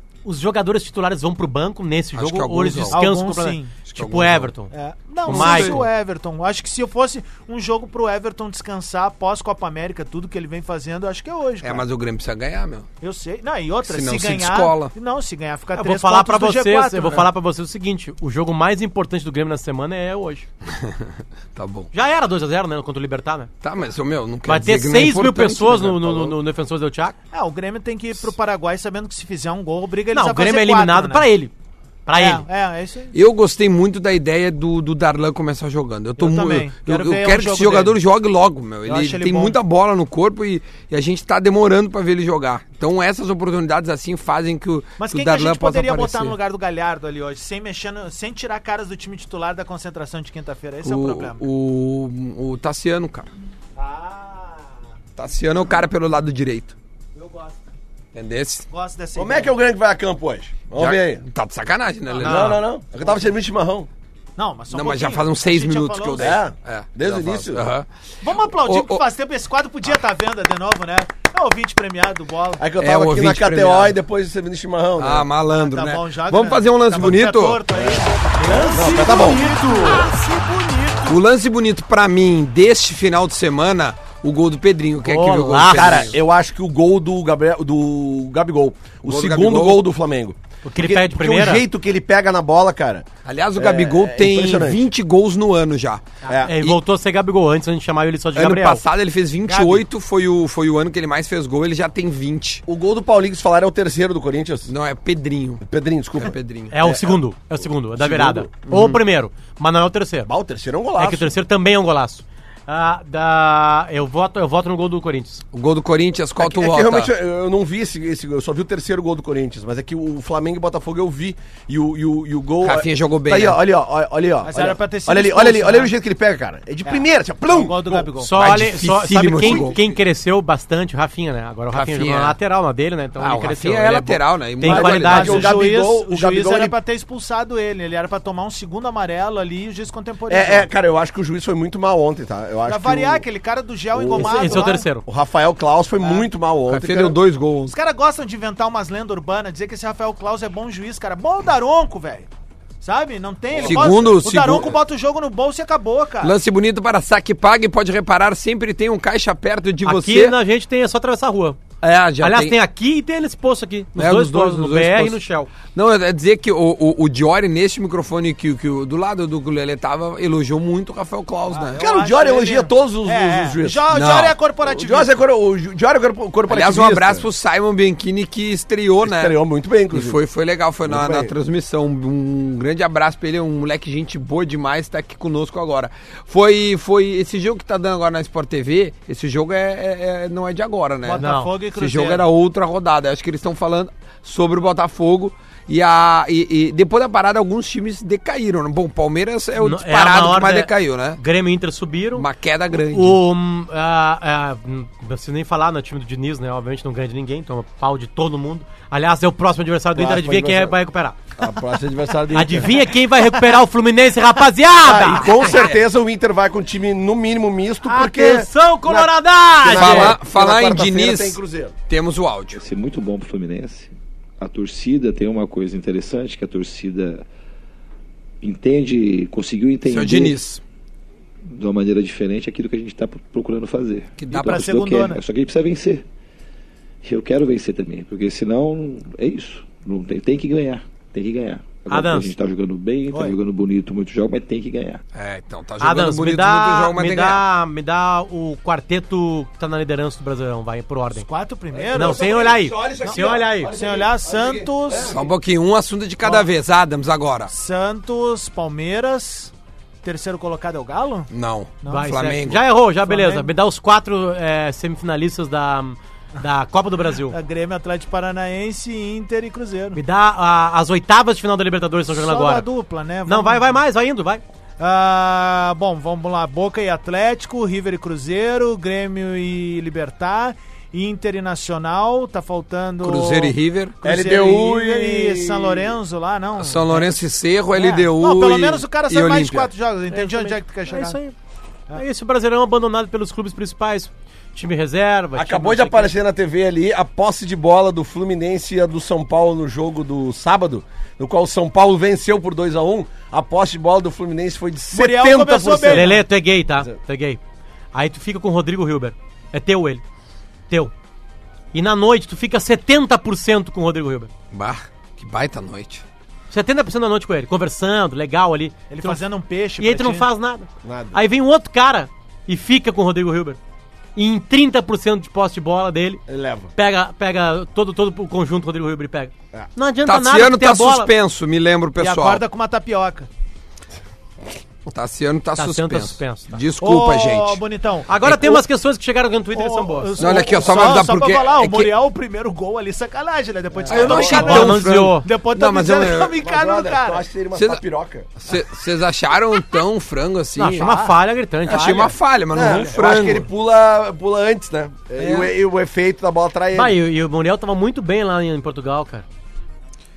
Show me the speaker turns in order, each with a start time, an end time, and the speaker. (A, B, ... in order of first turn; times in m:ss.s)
0:00.2-0:04.7 A
0:02.2-0:03.0 B
0:02.9-0:03.8 C
0:03.9-0:04.5 B
0:04.7-0:11.8 C
0:05.2-0:05.8 A
0:05.3-0:05.8 B
0:11.6-0:12.9 B
0:13.0-0:17.3 C
0:13.8-0:14.9 B
0:15.8-0:20.5 A
0:20.7-0:21.9 B
0:21.9-0:23.5 A
0:23.6-0:26.4 B
0:24.5-0:27.2 A
0:27.3-0:31.3 C
0:30.1-0:31.5 A
0:32.1-0:32.4 A
0:32.2-0:33.1 C
0:33.1-0:46.4 B
0:36.2-0:38.0 C
0:38.9-0:39.6 C
0:45.0-0:51.4 C
0:50.8-0:53.3 B
0:53.8-0:54.8 C
0:55.2-0:56.8 B
0:57.2-0:57.6 C
0:58.1-0:58.7 B
0:58.7-0:59.5 C
0:59.2-1:01.2 D
1:00.7-1:02.6 B
1:02.1-1:02.6 C
1:02.2-1:03.9 D
1:04.4-1:06.4 C
1:04.7-1:07.9 B
1:06.2-1:07.7 D
1:08.2-1:12.6 C
1:08.5-1:09.0 B
1:12.6-1:15.3 D
1:12.8-1:14.0 B
1:15.0-1:17.6 B
1:15.6-1:21.2 C
1:17.7-1:19.6 D
1:21.1-1:26.2 B
1:25.0-1:26.1 A
1:25.7-1:34.8 D
1:29.0-1:29.8 B
1:30.6-1:31.6 A
1:33.2-1:36.0 B
1:36.3-1:36.5 D
1:36.4-1:38.8 A
1:38.4-1:42.6 B
1:39.5-1:39.8 C
1:42.7-1:44.7 D
1:44.7-1:45.6 B
1:45.6-1:47.2 D
1:46.2-1:46.7 B
1:46.7-1:50.3 A
1:48.0-1:48.5 D
1:48.7-1:49.0 B
1:50.3-1:51.4 D
1:51.0-1:55.4 A
1:55.5-1:57.1 B
1:56.4-2:08.1 D
2:02.6-2:03.6 B
2:04.4-2:05.9 C
2:06.8-2:08.4 C
2:08.2-2:15.6 A
2:08.4-2:09.8 B
2:09.4-2:09.8 D
2:11.7-2:12.4 B
2:13.2-2:15.4 B
2:14.6-2:20.7 C
2:14.7-2:16.8 D
2:20.3-2:23.2 D
2:22.7-2:24.9 C
2:24.0-2:24.5 D
2:24.1-2:25.0 A
2:25.0-2:27.2 D
2:26.0-2:26.3 C
2:26.7-2:27.8 B
2:27.7-2:32.3 C
2:32.8-2:36.4 C
2:33.5-2:34.7 D
2:33.6-2:34.7 B
2:36.2-2:40.4 B
2:39.8-2:41.6 A
2:41.8-2:42.6 B
2:42.2-2:45.5 A
2:44.0-2:45.2 B
2:45.7-2:51.9 B
2:51.5-2:55.2 C
2:51.8-2:53.9 D
2:53.9-2:54.4 B
2:54.6-2:57.3 D
2:56.5-2:59.3 B
2:59.0-3:00.2 D
2:59.9-3:21.2 B
3:00.8-3:01.3 D
3:11.1-3:12.2 C
3:11.2-3:11.5 A
3:19.6-3:22.3 A
3:22.2-3:23.2 B
3:22.9-3:31.2 A
3:29.9-3:30.8 D
3:31.4-3:32.8 D
3:32.3-3:35.5 A
3:34.8-3:41.7 D
3:35.5-3:35.8 B
3:37.8-3:40.2 A
3:39.7-3:42.6 B
3:42.5-3:47.2 E
3:48.4-3:50.4 E
3:49.9-3:50.6 B
3:51.5-3:56.0 E
3:54.2-3:54.7 B
3:54.3-3:55.2 C
3:57.0-4:05.0 E
4:01.9-4:02.3 A
4:05.1-4:07.4 B
4:05.8-4:11.3 A
4:11.1-4:15.1 C
4:11.7-4:15.3 D
4:11.9-4:13.7 A
4:15.1-4:17.5 B
4:17.5-4:21.3 C
4:21.3-4:22.6 B
4:21.8-4:22.1 C
4:21.9-4:27.4 A
4:23.1-4:23.5 C
4:27.3-4:30.0 C
4:29.9-4:32.7 A
4:32.1-4:33.8 C
4:33.3-4:34.4 A
4:34.8-4:47.1 C
4:43.0-4:43.9 B
4:44.0-4:46.0 D
4:46.6-4:49.7 B
4:47.7-4:51.2 C
4:50.1-4:51.4 A
4:51.9-4:56.1 A
4:55.4-5:06.2 D
5:04.9-5:06.2 C
5:05.9-5:07.4 A
5:07.9-5:10.0 A
5:11.7-5:14.3 A
5:14.5-5:16.0 B
5:16.5-5:19.2 A
5:18.9-5:20.3 C
5:19.8-5:23.6 A
5:20.8-5:21.2 D
5:24.2-5:26.2 A
5:26.3-5:26.7 D
5:26.8-5:31.1 A
5:30.1-5:32.4 B
5:32.0-5:33.3 C
5:34.9-5:37.6 B
5:35.6-5:36.6 A
5:36.8-5:38.1 C
5:38.1-5:40.5 A
5:38.2-5:38.6 B
5:39.5-5:47.2 C
5:40.2-5:41.9 B
5:43.8-5:44.4 D
5:43.9-5:46.4 B
5:44.2-5:45.3 A
5:46.4-5:48.3 D
5:47.6-5:47.8 B
5:48.4-5:50.9 B
5:50.6-5:52.2 A
5:50.8-5:51.2 C
5:51.7-5:53.5 B
5:52.5-5:57.0 D
5:55.2-5:55.5 B
5:56.7-5:59.2 A